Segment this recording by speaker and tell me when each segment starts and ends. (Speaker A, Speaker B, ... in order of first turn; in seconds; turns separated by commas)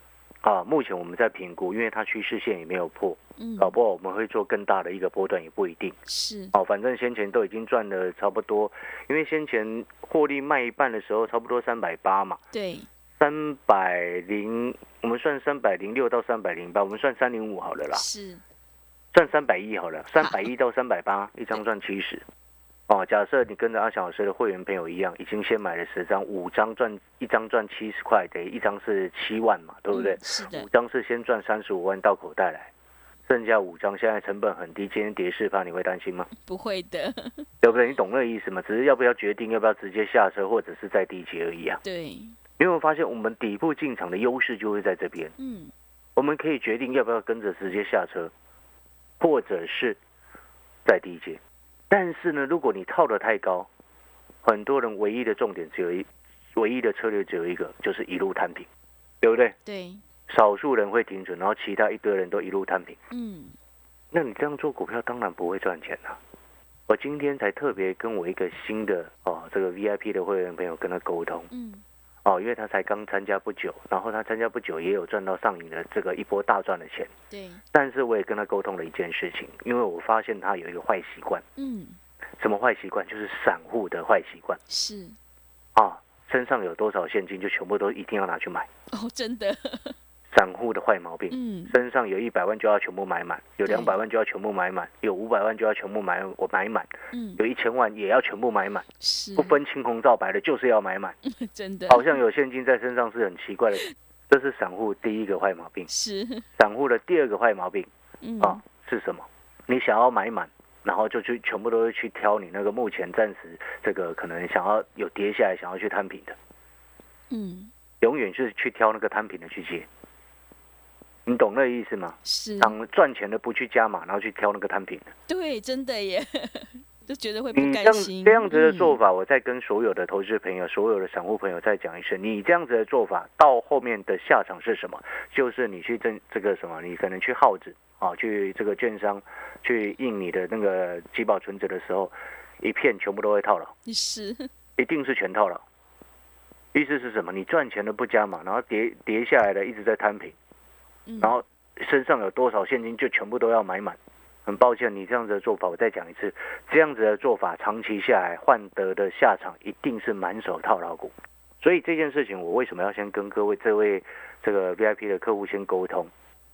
Speaker A: 0.4-6.0, Speaker B: 3.4-3.7, Speaker B: 6.1-6.5, Speaker A: 6.5-12.4, Speaker B: 12.5-12.9, Speaker A: 13.2-18.0, Speaker B: 17.9-18.4, Speaker A: 19.1-22.2, Speaker B: 20.2-20.5, Speaker A: 22.9-32.7, Speaker B: 29.9-30.7, Speaker A: 33.3-36.3, Speaker B: 36.4-37.5, Speaker A: 37.6-41.8, Speaker B: 41.8-42.4, Speaker A: 42.6-45.3, Speaker B: 45.4-45.7, Speaker A: 46.1-48.3, Speaker A: 49.2-50.0, Speaker A: 50.8-53.7, Speaker A: 54.4-58.7, Speaker A: 59.2-59.5, Speaker B: 59.6-60.0, Speaker A: 60.3-63.0, Speaker B: 63.1-63.5, Speaker A: 64.1-66.2, Speaker A: 66.9-71.5, Speaker B: 71.5-71.8, Speaker A: 72.2-77.1, Speaker B: 77.3-77.6, Speaker A: 77.7-81.4, Speaker B: 81.6-82.0, Speaker A: 82.4-84.6, Speaker B: 84.7-85.2, Speaker A: 85.7-88.7, Speaker B: 88.9-90.0, Speaker A: 90.3-101.2, Speaker B: 91.3-91.8, Speaker B: 93.6-93.9, Speaker B: 97.1-97.4, Speaker B: 99.0-99.6, Speaker B: 101.2-102.2, Speaker A: 101.9-105.9, Speaker B: 105.9-106.5, Speaker A: 106.5-107.9, Speaker B: 108.2-108.6, Speaker A: 108.4-116.3, Speaker B: 117.3-117.7, Speaker A: 118.0-119.9, Speaker A: 121.2-125.1, Speaker B: 122.2-122.7, Speaker B: 125.3-129.0, Speaker A: 127.5-143.7, Speaker B: 143.8-144.5, Speaker A: 144.8-145.6, Speaker A: 146.7-150.3, Speaker B: 151.1-151.4, Speaker A: 151.2-166.1